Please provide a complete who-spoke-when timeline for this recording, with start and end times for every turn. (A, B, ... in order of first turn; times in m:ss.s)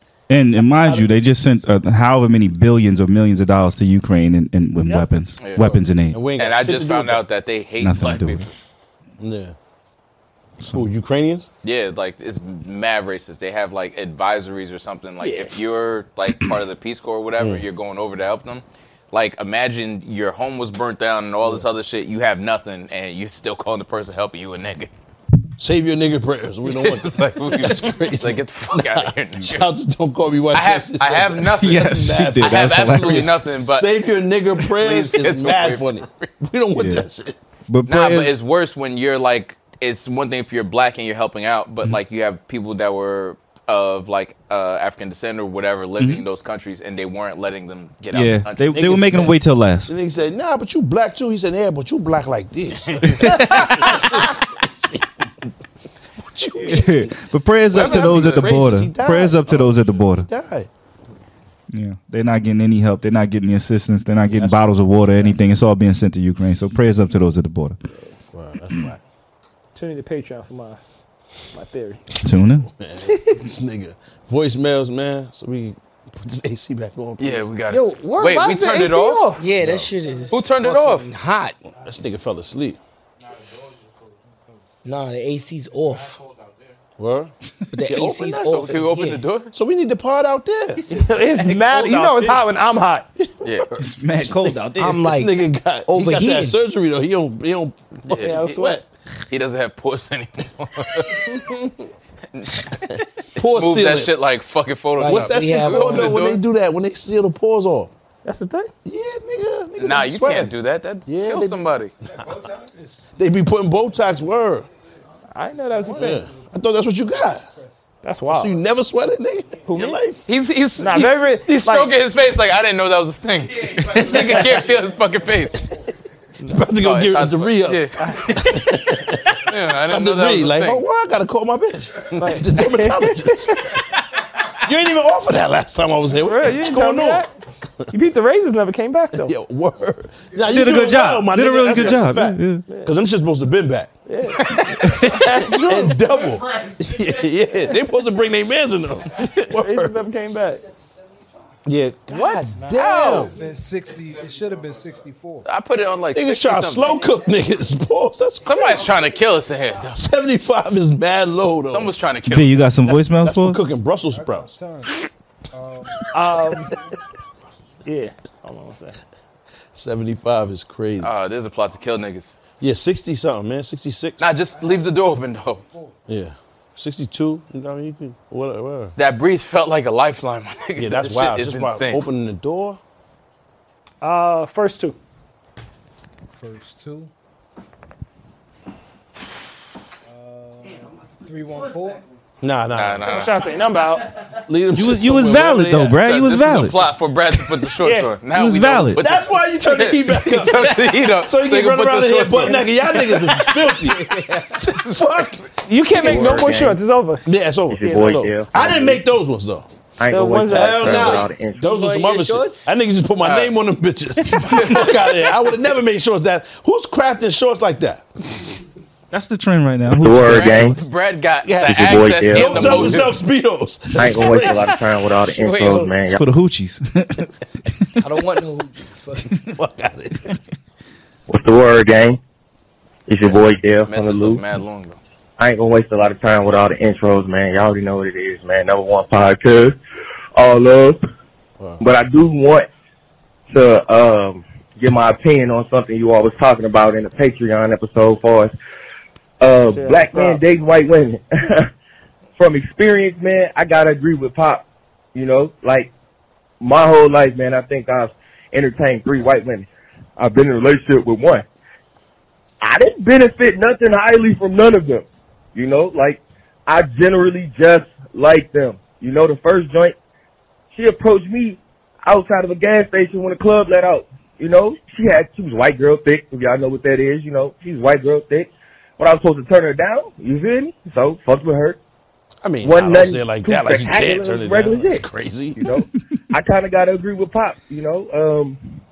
0:00.3-0:06.2 A
0:04.8-0:05.1 B
0:05.6-0:07.2 C
0:06.4-0:08.5 D
0:07.8-0:08.5 A
0:09.2-0:09.6 C
0:10.6-0:11.5 C
0:11.6-0:24.9 D
0:17.4-0:17.6 C
0:25.6-0:37.4 C
0:26.7-0:29.7 D
0:30.5-0:34.1 D
0:31.6-0:33.4 A
0:34.6-0:36.3 D
0:36.8-0:37.0 A
0:37.7-0:38.3 A
0:37.9-0:49.3 D
0:46.0-0:46.2 A
0:48.1-0:49.9 A
0:49.0-0:49.3 C
0:49.9-0:55.2 C
0:52.9-0:53.4 D
0:53.1-0:54.2 A
0:56.3-0:57.1 C
0:56.6-1:00.3 A
0:57.7-1:00.7 C
0:57.7-0:58.5 D
1:01.7-1:07.8 A
1:04.3-1:05.4 C
1:08.3-1:09.0 C
1:09.8-1:10.8 B
1:11.5-1:12.0 B
1:12.2-1:12.7 A
1:12.6-1:17.5 C
1:13.0-1:13.4 B
1:17.2-1:19.4 D
1:17.7-1:19.5 B
1:19.4-1:21.6 E
1:19.6-1:19.9 C
1:20.0-1:20.3 F
1:20.3-1:21.1 D
1:21.8-1:22.8 C
1:23.4-1:24.7 F
1:24.8-1:26.2 E
1:27.0-1:27.3 C
1:27.7-1:29.2 E
1:27.9-1:28.8 C
1:28.5-1:29.5 D
1:29.5-1:30.9 C
1:30.9-1:33.1 B
1:31.5-1:32.5 C
1:33.2-1:38.8 C
1:33.4-1:33.7 D
1:33.8-1:35.1 A
1:34.8-1:36.6 E
1:38.1-1:38.6 D
1:38.1-1:38.8 B
1:39.3-1:41.4 D
1:42.3-1:46.4 D
1:43.4-1:44.2 C
1:45.0-1:46.2 E
1:45.0-1:47.9 C
1:48.2-1:48.7 B
1:48.8-1:50.5 C
1:49.8-1:51.9 D
1:51.1-1:51.7 C
1:52.1-1:53.1 F
1:53.2-1:54.7 C
1:55.3-1:56.2 B
1:55.4-1:57.8 F
1:56.0-1:57.4 C
1:58.0-1:58.6 B
1:58.3-2:00.2 C
1:59.7-2:00.0 B
2:00.3-2:05.7 D
2:00.8-2:01.9 B
2:03.8-2:04.6 C
2:06.5-2:13.8 C
2:06.8-2:10.8 D
2:08.0-2:08.5 B
2:12.2-2:13.8 B
2:14.6-2:17.3 C
2:16.2-2:17.3 B
2:17.9-2:19.4 B
2:19.1-2:23.9 C
2:20.5-2:22.6 A
2:24.1-2:26.0 B
2:24.4-2:25.0 D
2:25.2-2:30.0 C
2:29.5-2:30.6 B
2:31.6-2:33.4 C
2:32.1-2:33.4 D
2:32.6-2:35.5 F
2:35.4-2:37.1 D
2:36.1-2:38.9 C
2:38.4-2:40.0 D
2:39.9-2:41.9 C
2:41.7-2:42.7 D
2:42.3-2:43.6 A
2:42.9-2:44.6 C
2:44.1-2:46.1 F
2:46.1-2:46.7 B
2:47.8-2:49.0 B
2:49.7-2:51.1 C
2:51.0-2:52.3 D
2:52.6-2:54.2 C
2:54.2-2:55.6 D
2:54.5-2:56.0 F
2:56.1-2:58.9 C
2:59.0-3:02.0 D
3:00.8-3:02.8 C
3:04.0-3:05.0 B
3:06.3-3:07.1 F
3:10.1-3:12.1 F
3:12.4-3:13.3 C
3:12.7-3:13.5 D
3:13.1-3:14.1 B
3:14.4-3:16.0 C
3:14.7-3:16.9 A
3:16.0-3:25.0 D
3:17.8-3:18.1 B
3:18.3-3:19.1 A
3:18.9-3:26.7 C
3:25.7-3:27.3 B
3:26.0-3:26.8 G
3:27.3-3:29.7 C
3:27.7-3:29.0 G
3:30.0-3:31.8 G
3:30.1-3:31.2 B
3:30.5-3:38.1 C
3:31.6-3:32.7 E
3:33.2-3:33.6 D
3:34.4-3:35.0 D
3:39.1-3:40.8 A
3:39.9-3:40.8 G
3:40.1-3:43.2 D
3:41.4-3:44.8 C
3:41.6-3:42.9 G
3:44.0-3:46.3 G
3:45.4-3:45.9 D
3:46.0-3:47.3 A
3:48.0-3:49.4 E
3:49.4-3:50.3 C
3:51.3-3:52.2 G
3:53.1-3:54.4 G
3:53.3-3:55.0 D
3:55.4-3:59.8 G
4:00.4-4:01.0 G
4:01.6-4:01.8 C
4:01.8-4:02.7 G
4:03.5-4:08.5 G
4:09.4-4:11.7 G
4:09.7-4:10.4 B
4:12.4-4:15.9 G
4:16.6-4:21.4 G
4:22.6-4:30.0 G
4:30.7-4:41.8 G
4:42.4-4:45.6 C
4:42.6-4:48.6 G